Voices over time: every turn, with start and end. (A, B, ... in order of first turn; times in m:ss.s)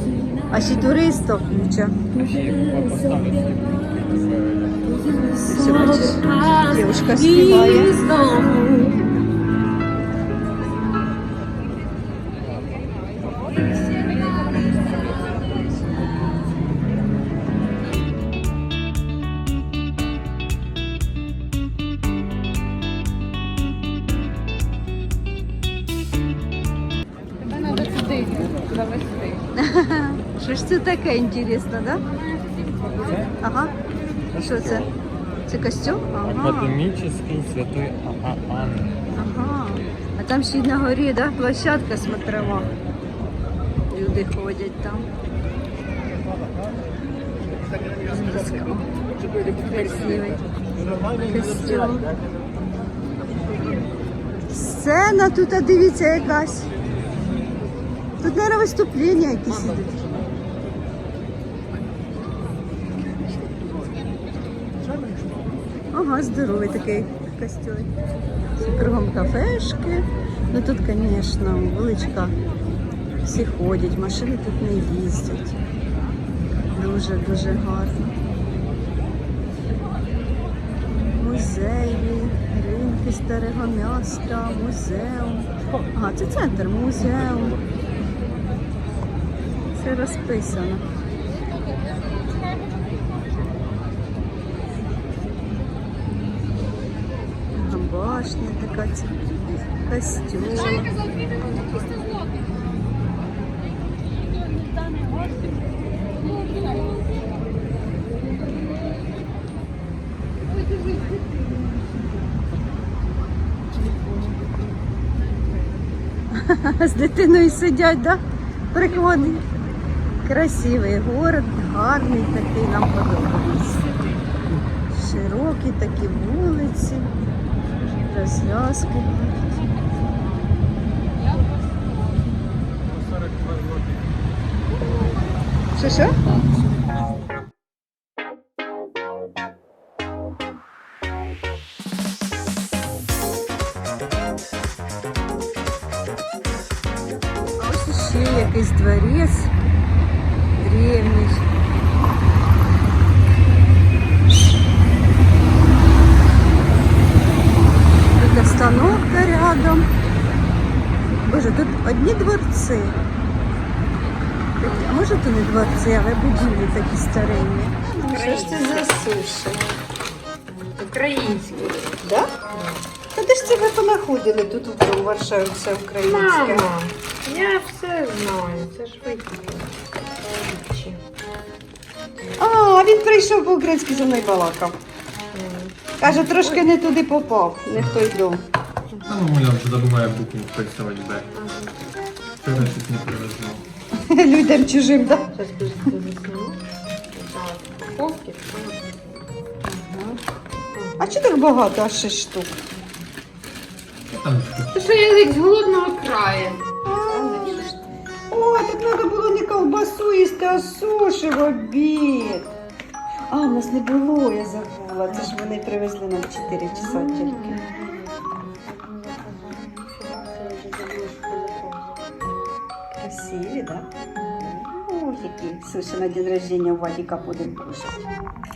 0:00.5-0:02.0 A
0:02.1-0:04.9 B
0:05.0-0:08.1 A
0:05.7-0:09.0 C
0:27.4-0:29.5 C
0:29.6-0:32.0 A
0:32.1-0:33.7 C
0:33.0-0:33.4 B
0:33.4-0:33.7 A
0:34.3-0:34.9 A
0:34.4-0:35.0 B
0:35.5-0:36.8 A
0:36.1-0:39.1 B
0:39.2-0:42.7 A
0:43.9-0:45.1 A
0:48.1-0:48.9 A
0:49.4-0:50.4 A
0:51.2-0:52.1 A
0:54.5-0:56.7 A
0:58.2-1:00.1 A
1:05.9-1:07.9 A
1:08.6-1:12.3 A
1:13.2-1:15.6 A
1:16.7-1:18.2 A
1:21.1-1:27.6 A
1:29.8-1:30.8 A
1:37.5-1:39.2 A
1:39.8-1:40.9 A
1:41.0-1:42.2 C
1:46.4-1:46.9 C
1:50.7-1:51.1 C
1:56.3-1:58.2 A
1:58.7-1:59.4 A
2:00.2-2:03.8 A
2:03.9-2:04.2 C
2:04.9-2:07.1 A
2:08.0-2:09.7 A
2:15.8-2:16.2 A
2:27.6-2:29.5 A
2:30.6-2:31.5 A
2:38.2-2:39.9 A
2:41.2-2:43.0 A
2:44.6-2:49.6 A
2:47.9-2:49.0 C
2:50.6-2:51.9 C
2:52.0-2:52.3 A
2:52.5-2:52.8 C
2:53.2-2:56.7 A
2:56.0-2:59.8 C
3:00.4-3:01.0 C
3:02.4-3:04.8 A
3:05.3-3:06.6 C
3:06.0-3:08.4 A
3:09.1-3:11.3 B
3:11.3-3:11.8 C
3:12.4-3:13.6 B
3:14.0-3:15.3 A
3:15.3-3:18.9 C
3:19.7-3:20.2 A
3:20.7-3:21.2 C
3:21.0-3:22.5 A
3:24.1-3:24.8 B
3:24.7-3:27.8 C
3:26.8-3:27.8 A
3:28.3-3:32.5 A
3:33.3-3:37.6 A
3:36.7-3:42.2 C
3:42.9-3:48.1 A